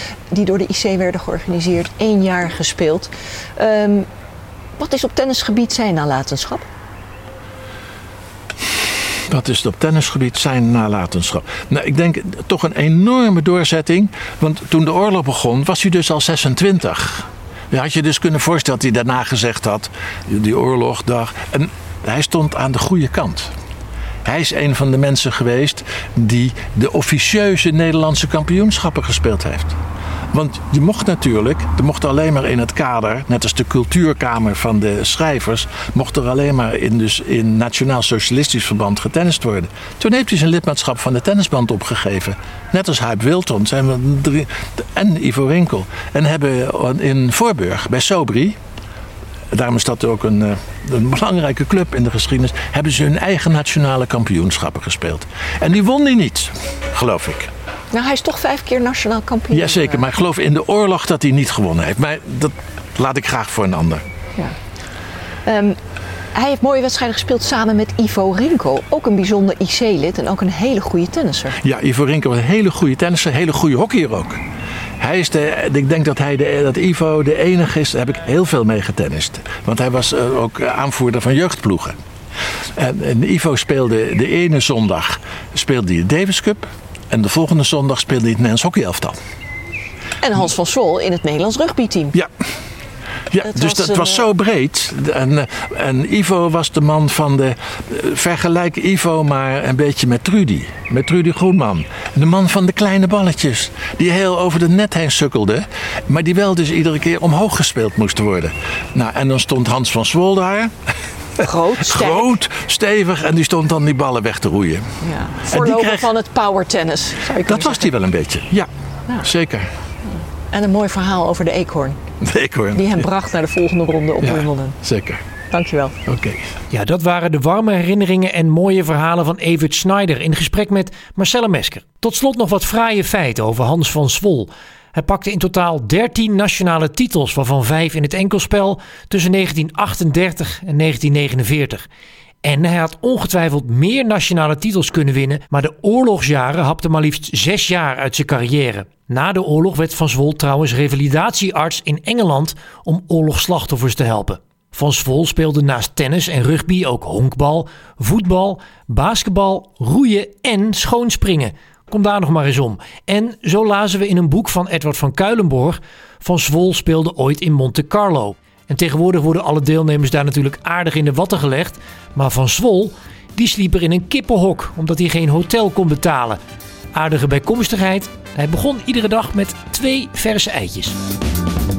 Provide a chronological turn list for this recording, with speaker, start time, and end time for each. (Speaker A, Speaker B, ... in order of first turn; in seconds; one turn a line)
Speaker A: 0.3-4.1
Speaker A: 4.8-6.7
Speaker B: 9.3-23.5
Speaker B: 24.2-29.8
Speaker B: 30.3-48.6
Speaker B: 49.5-57.5
Speaker A: 57.9-60.0
Speaker B: 59.5-64.0
Speaker A: 65.4-65.8
Speaker A: 66.3-71.6
Speaker B: 71.6-74.4
Speaker B: 75.0-82.0
Speaker B: 82.8-89.2
Speaker A: 90.2-92.1
Speaker B: 93.3-110.7
Speaker A: 93.4-94.2
Speaker B: 111.4-114.8
Speaker A: 111.4-112.3
Speaker A: 115.0-117.9
Speaker B: 115.5-116.1
Speaker B: 117.4-118.7
Speaker B: 119.2-119.7
Speaker A: 120.5-122.0
Speaker B: 122.2-123.0
Speaker A: 122.7-124.8
Speaker B: 124.2-125.2
Speaker A: 125.5-126.0
Speaker B: 126.0-126.4
Speaker C: 126.7-141.8
Speaker C: 142.4-176.4
Speaker C: 176.9-181.0